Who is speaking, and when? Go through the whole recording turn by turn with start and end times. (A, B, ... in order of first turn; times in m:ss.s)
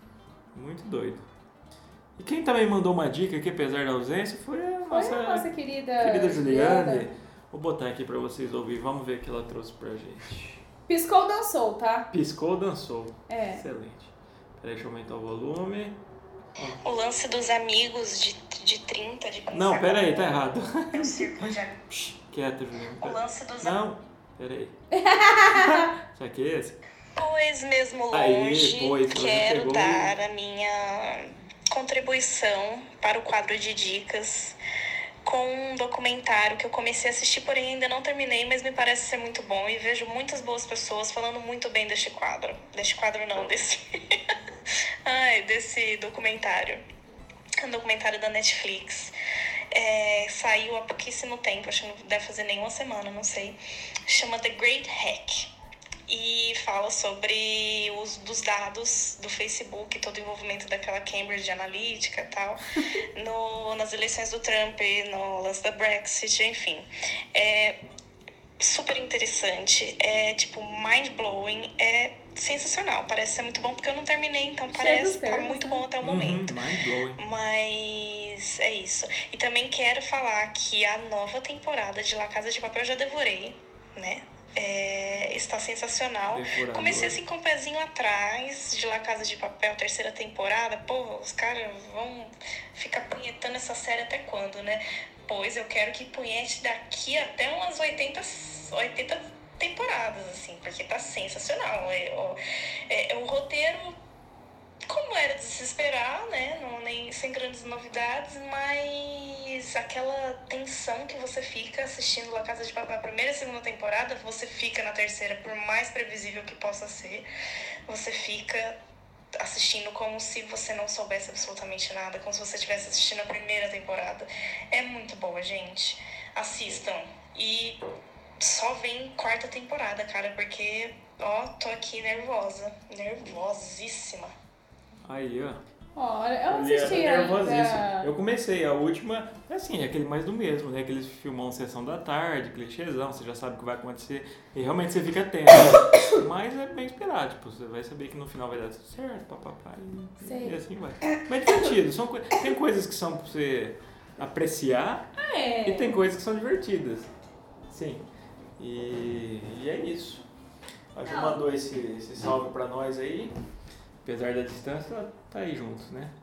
0:00.5-0:01.2 A
0:02.2-0:05.5 A
0:04.9-0:07.1 B
0:06.0-0:10.6 A
0:10.9-0:12.1 B
0:12.1-0:16.0 A
0:13.3-0:13.6 B
0:16.8-0:20.3 C
0:19.5-0:24.7 A
0:20.9-0:22.0 C
0:23.0-0:23.8 C
0:24.9-0:25.9 B
0:25.5-0:26.8 A
0:27.2-0:34.6 C
0:28.1-0:30.1 A
0:35.2-0:44.3 C
0:45.0-0:46.8 C
0:47.6-0:49.1 C
0:49.7-0:55.5 C
0:56.1-1:07.8 C
1:08.6-1:16.6 C
1:14.8-1:15.9 B
1:16.0-1:17.2 A
1:17.2-1:44.0 C
1:26.3-1:27.2 A
1:44.9-1:57.3 C
1:57.9-1:58.8 C
1:59.4-2:07.8 C
2:08.4-2:14.3 C
2:15.0-2:15.6 A
2:16.0-2:18.1 B
2:16.5-2:35.1 A
2:30.2-2:30.6 B
2:35.2-2:35.9 B
2:35.6-2:37.1 A
2:37.7-2:38.0 A
2:38.6-2:40.2 A
2:41.0-2:43.3 A
2:41.1-2:41.4 B
2:44.0-2:46.1 A